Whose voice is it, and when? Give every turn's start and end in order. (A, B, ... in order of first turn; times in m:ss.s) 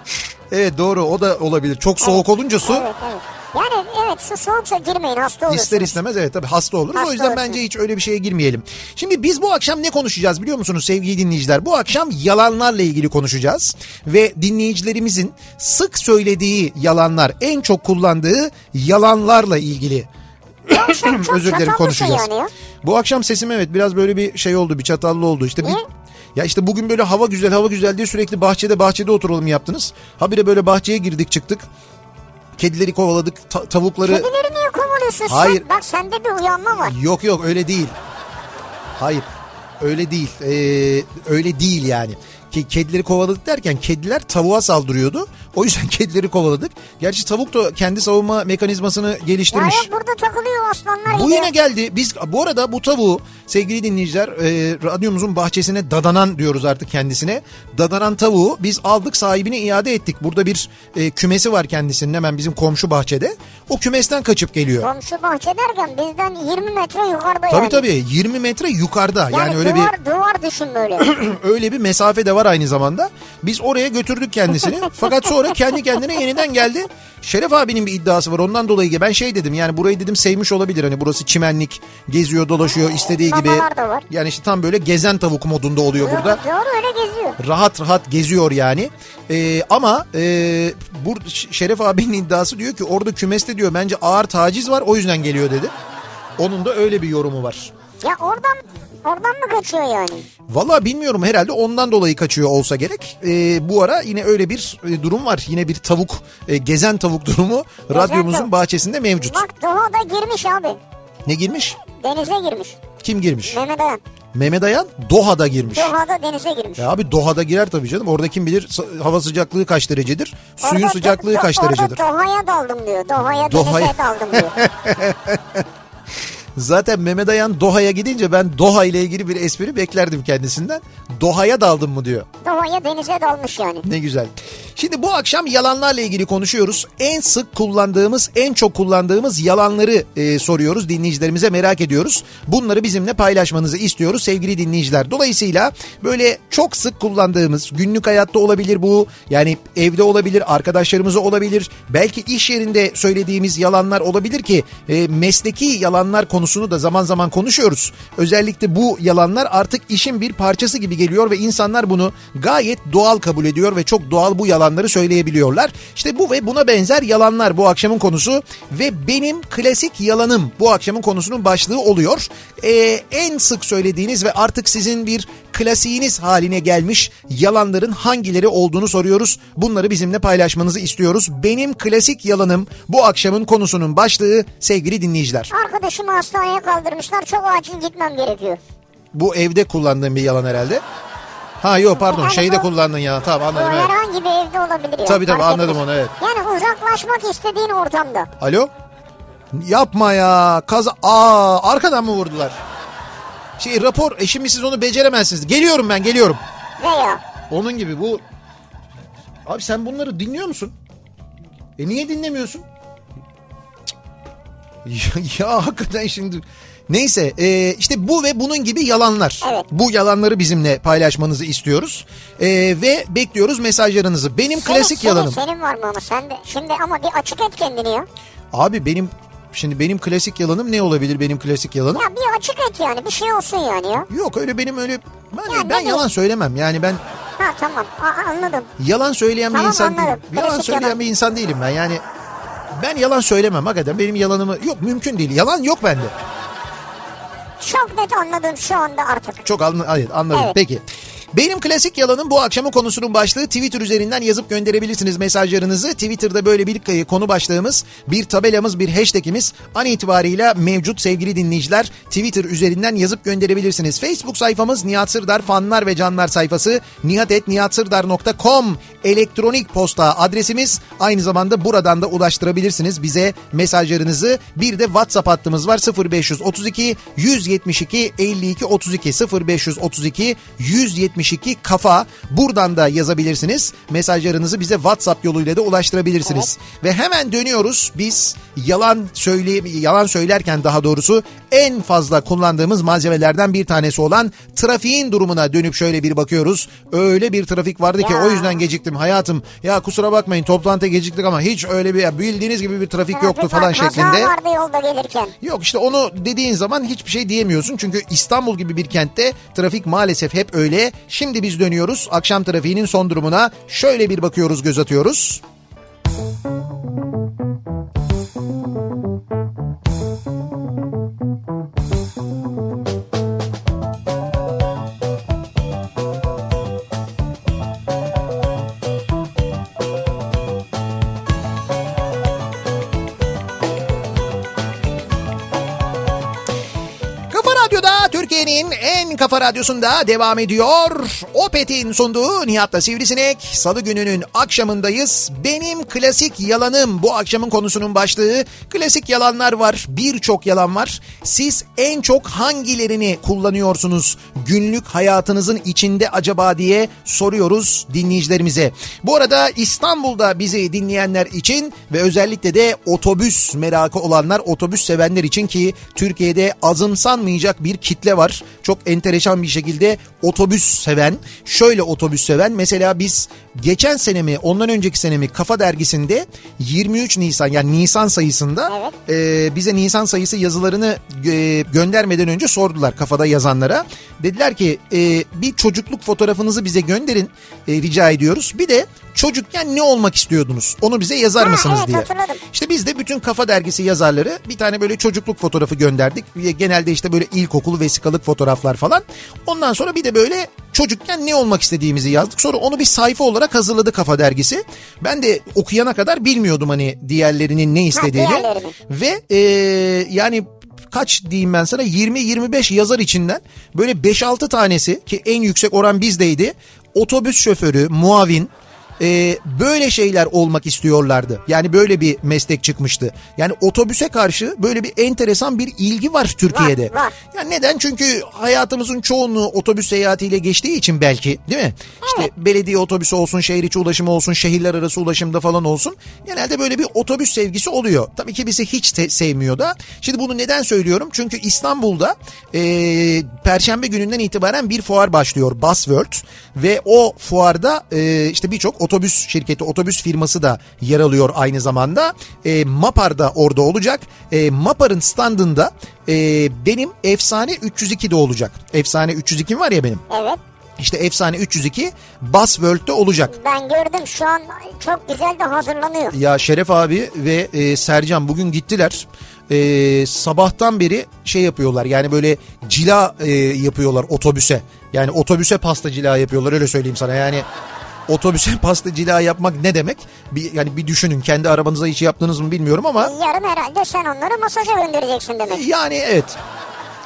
0:00.5-0:02.9 A
0:02.0-0:06.0 B
0:05.5-0:20.1 A
0:06.9-0:07.6 B
0:20.7-0:22.3 A
0:20.7-0:22.5 B
0:22.8-0:25.8 A
0:26.3-0:31.6 A
0:32.6-0:34.3 A
0:34.0-0:36.9 B
0:35.3-0:35.6 A
0:36.8-0:37.9 A
0:39.0-0:39.3 A
0:39.8-0:49.9 A
0:49.5-0:51.5 B
0:51.1-1:04.9 A
1:04.8-1:07.8 B
1:07.5-1:09.9 A
1:09.3-1:11.1 B
1:11.0-1:26.4 A
1:23.1-1:24.1 B
1:26.0-1:27.4 B
1:27.4-1:35.7 A
1:36.4-1:37.7 A
1:38.0-1:40.3 B
1:40.5-1:49.4 A
1:47.9-1:48.5 B
1:49.2-1:50.8 B
1:51.2-1:51.8 A
1:51.8-1:52.8 B
1:53.0-1:53.6 A
1:53.4-1:54.0 B
1:54.3-1:55.9 A
1:55.7-1:56.9 B
1:56.8-2:02.0 A
2:00.6-2:04.6 B
2:03.4-2:05.6 A
2:06.6-2:12.2 A
2:12.4-2:13.8 B
2:13.8-3:05.5 A
3:05.5-3:08.6 B
3:09.1-3:10.8 A
3:11.6-3:13.9 A
3:12.0-3:12.7 B
3:13.5-3:18.3 B
3:15.0-3:16.1 A
3:18.4-3:18.7 A
3:19.5-3:22.6 A
3:23.6-3:26.4 A
3:26.8-3:27.2 B
3:27.5-3:28.2 A
3:29.4-3:30.7 A
3:31.8-3:32.6 A
3:34.8-3:45.4 A
3:44.5-3:48.1 B
3:48.5-3:52.0 A
3:51.9-3:54.1 B
3:54.1-3:57.0 A
3:55.5-3:56.0 B
3:57.4-3:58.7 B
3:58.8-4:02.0 A
3:59.5-4:01.0 B
4:02.7-4:06.1 A
4:07.6-4:09.4 B
4:09.4-5:04.3 A
4:46.2-4:46.5 B
4:58.0-4:58.6 B
5:03.1-5:05.3 B
5:05.4-5:15.4 A
5:37.3-7:40.0 A
6:18.7-6:19.0 B
6:31.4-6:32.4 B
6:47.9-6:48.8 B
7:06.5-7:07.1 B
7:12.0-7:12.3 B
7:40.1-7:40.4 B
7:40.8-7:43.3 A
7:43.3-7:46.2 B
7:46.1-7:57.4 A
7:58.1-8:03.1 A
8:03.0-8:05.6 B
8:05.5-8:06.4 A